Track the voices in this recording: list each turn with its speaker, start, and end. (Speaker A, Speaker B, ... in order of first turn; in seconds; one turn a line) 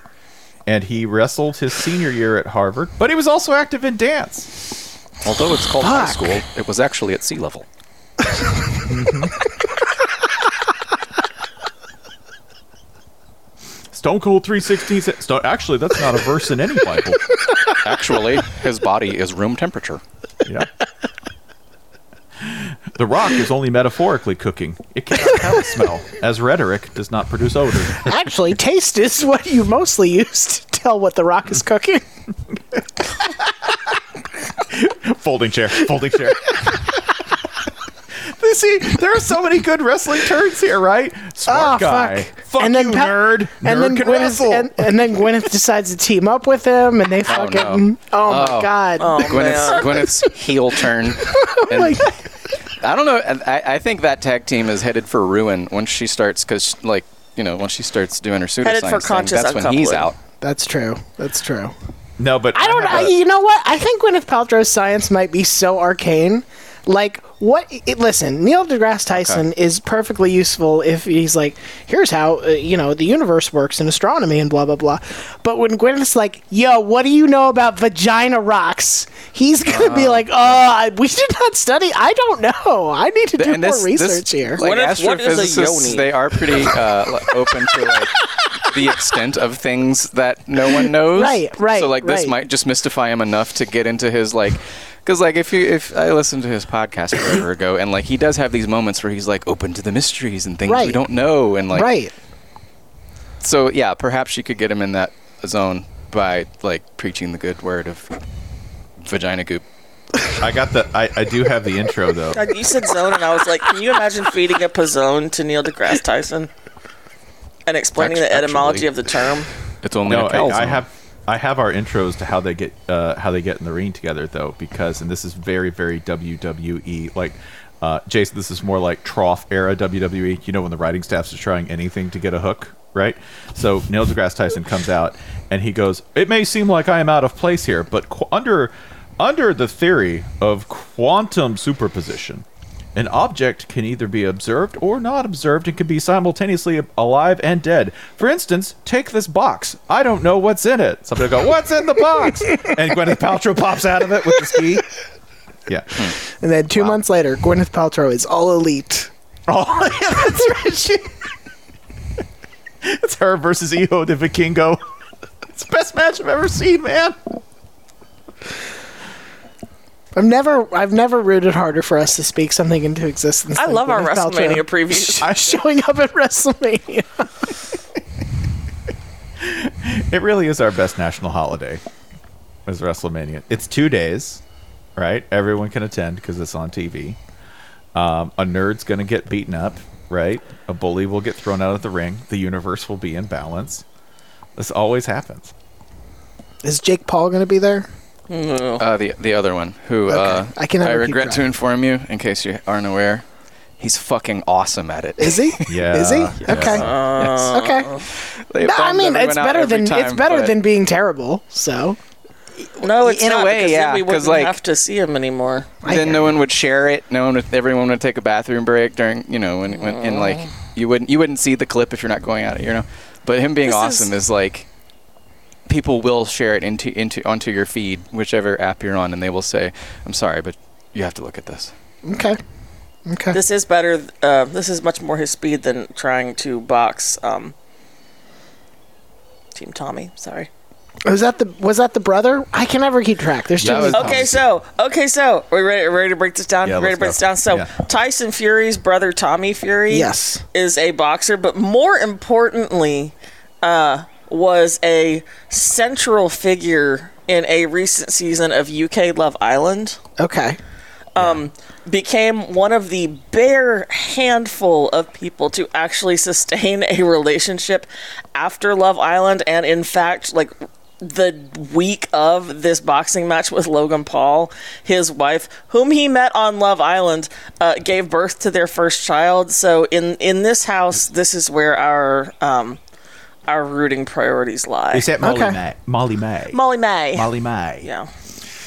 Speaker A: 0.7-4.6
Speaker B: 5.2-7.7
Speaker C: 5.8-6.4
Speaker A: 8.9-9.4
Speaker A: 13.9-17.2
Speaker B: 17.8-20.0
Speaker A: 22.4-28.1
Speaker C: 28.0-32.0
Speaker A: 34.6-36.6
Speaker A: 38.4-44.9
Speaker C: 41.5-49.3
Speaker B: 47.3-52.1
Speaker D: 49.0-50.1
Speaker C: 51.2-52.3
Speaker B: 52.7-60.2
Speaker D: 58.6-60.1
Speaker C: 60.4-61.7
Speaker A: 62.2-63.1
Speaker C: 62.5-84.6
Speaker B: 69.1-69.4
Speaker B: 79.7-80.6
Speaker B: 83.4-101.9
Speaker D: 84.6-86.2
Speaker C: 91.1-92.4
Speaker C: 100.7-101.0
Speaker C: 101.7-102.1
Speaker B: 103.4-108.1
Speaker B: 109.0-109.6
Speaker A: 110.4-112.5
Speaker D: 112.3-116.5
Speaker D: 117.7-119.5
Speaker B: 118.0-118.9
Speaker B: 119.8-120.8
Speaker A: 120.0-142.4
Speaker A: 142.9-154.8
Speaker A: 155.7-156.1
Speaker C: 156.4-159.1
Speaker A: 159.5-161.2
Speaker A: 162.8-164.8
Speaker A: 165.5-167.2
Speaker C: 170.1-177.5
Speaker D: 173.5-175.3
Speaker A: 179.4-181.8
Speaker A: 182.7-184.4
Speaker A: 184.9-187.2
Speaker A: 187.9-193.8
Speaker A: 194.6-195.5
Speaker C: 196.6-197.9
Speaker D: 198.3-198.8
Speaker B: 198.8-203.2
Speaker C: 200.1-201.4
Speaker B: 203.8-207.6
Speaker C: 205.2-207.9
Speaker A: 205.7-206.8
Speaker D: 206.7-208.0
Speaker B: 208.2-210.6
Speaker C: 208.6-212.0
Speaker B: 212.8-214.6
Speaker D: 212.8-215.8
Speaker C: 215.8-216.4
Speaker B: 215.9-224.7
Speaker D: 219.9-220.4
Speaker D: 223.7-224.1
Speaker B: 225.7-231.7
Speaker C: 232.1-232.4
Speaker C: 233.1-233.4
Speaker D: 233.3-237.6
Speaker D: 239.5-240.5
Speaker C: 241.1-244.2
Speaker A: 243.6-244.4
Speaker B: 243.6-244.4
Speaker D: 243.9-260.0
Speaker A: 246.6-247.7
Speaker C: 249.9-250.4
Speaker C: 260.2-260.6
Speaker D: 261.1-282.8
Speaker A: 261.2-261.4
Speaker D: 283.5-285.1
Speaker A: 284.9-286.6
Speaker C: 285.2-285.6
Speaker D: 286.5-288.1
Speaker A: 287.1-287.9